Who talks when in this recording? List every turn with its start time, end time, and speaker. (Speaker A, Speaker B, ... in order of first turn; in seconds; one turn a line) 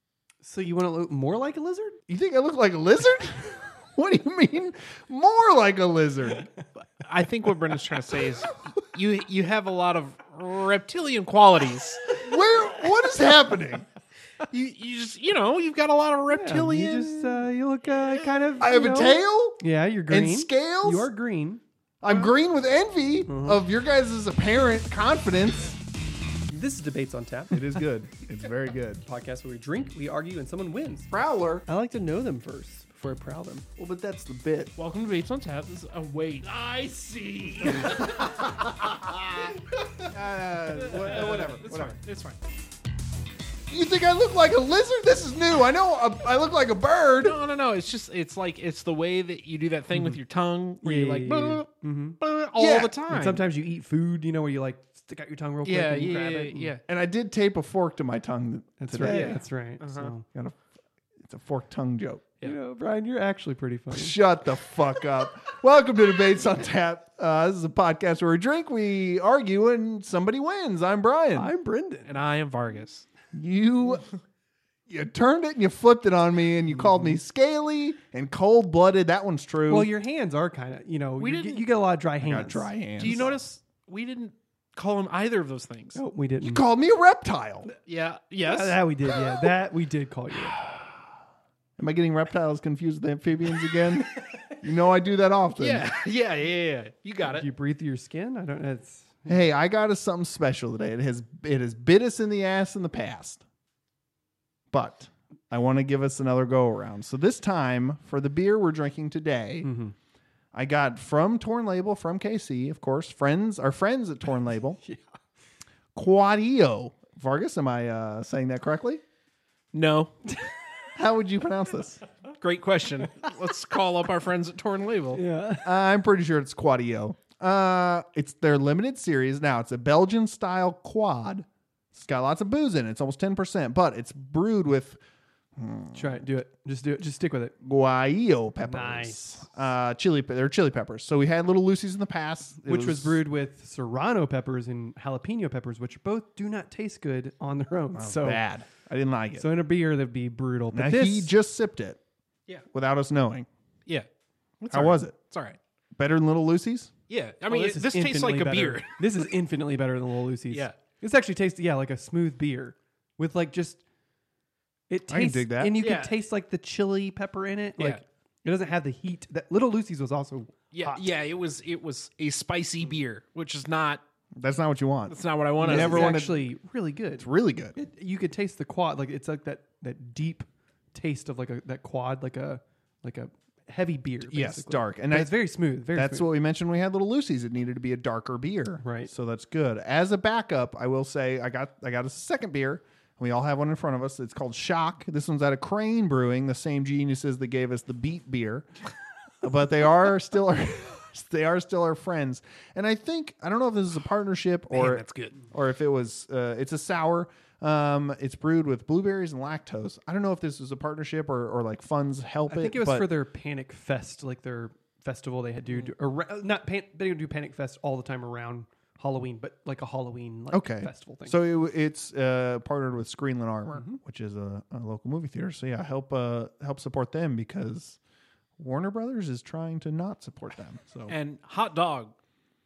Speaker A: 0.4-2.0
Speaker B: 2.1-6.5
Speaker C: 7.0-12.2
Speaker B: 12.1-13.8
Speaker C: 14.4-17.4
Speaker A: 16.3-21.6
Speaker B: 18.6-21.1
Speaker B: 22.0-25.8
Speaker A: 23.3-23.6
Speaker A: 26.5-27.8
Speaker B: 27.5-29.0
Speaker A: 29.0-31.1
Speaker B: 31.1-31.6
Speaker A: 31.7-33.6
Speaker B: 33.8-34.7
Speaker C: 34.8-39.5
Speaker B: 37.7-39.2
Speaker B: 40.0-41.9
Speaker C: 40.7-42.4
Speaker B: 43.7-47.4
Speaker C: 47.2-51.6
Speaker A: 50.8-52.2
Speaker C: 52.2-53.4
Speaker B: 52.5-53.0
Speaker A: 53.1-56.7
Speaker C: 55.6-56.8
Speaker B: 56.9-59.4
Speaker A: 58.8-60.2
Speaker C: 59.0-60.1
Speaker B: 60.3-60.6
Speaker B: 61.2-62.3
Speaker A: 62.4-64.2
Speaker B: 63.9-71.5
Speaker A: 71.3-72.2
Speaker C: 72.1-73.1
Speaker B: 73.3-74.0
Speaker B: 74.9-79.9
Speaker A: 76.7-77.2
Speaker A: 79.7-82.7
Speaker C: 81.2-81.6
Speaker B: 82.2-83.4
Speaker C: 83.0-86.0
Speaker A: 85.9-86.6
Speaker B: 86.4-87.7
Speaker C: 87.8-88.8
Speaker A: 88.4-90.6
Speaker B: 90.6-91.0
Speaker B: 91.8-95.9
Speaker C: 95.6-97.5
Speaker A: 97.2-99.3
Speaker B: 99.3-103.4
Speaker B: 104.7-109.7
Speaker A: 109.6-109.9
Speaker B: 110.5-114.8
Speaker B: 115.9-119.0
Speaker C: 119.7-120.1
Speaker B: 120.9-122.0
Speaker C: 122.4-125.2
Speaker A: 125.1-125.7
Speaker B: 125.6-135.0
Speaker B: 135.6-136.2
Speaker A: 135.9-137.5
Speaker B: 137.6-143.2
Speaker A: 138.6-139.4
Speaker A: 142.6-148.4
Speaker B: 147.9-149.4
Speaker A: 149.4-151.3
Speaker B: 150.7-152.0
Speaker B: 152.7-153.5
Speaker C: 154.6-155.6
Speaker B: 154.7-155.2
Speaker B: 156.0-156.9
Speaker C: 157.1-159.0
Speaker A: 157.5-163.8
Speaker A: 164.9-171.1
Speaker B: 165.1-165.8
Speaker C: 165.8-166.1
Speaker C: 167.8-168.0
Speaker C: 170.7-174.0
Speaker B: 174.3-176.4
Speaker C: 175.1-176.2
Speaker A: 175.6-186.3
Speaker B: 177.2-177.8
Speaker B: 184.3-185.3
Speaker B: 185.9-198.7
Speaker A: 188.8-189.1
Speaker B: 199.4-213.1
Speaker C: 204.7-205.4
Speaker A: 212.5-221.4
Speaker B: 220.5-228.0
Speaker B: 228.6-231.1
Speaker C: 231.1-232.1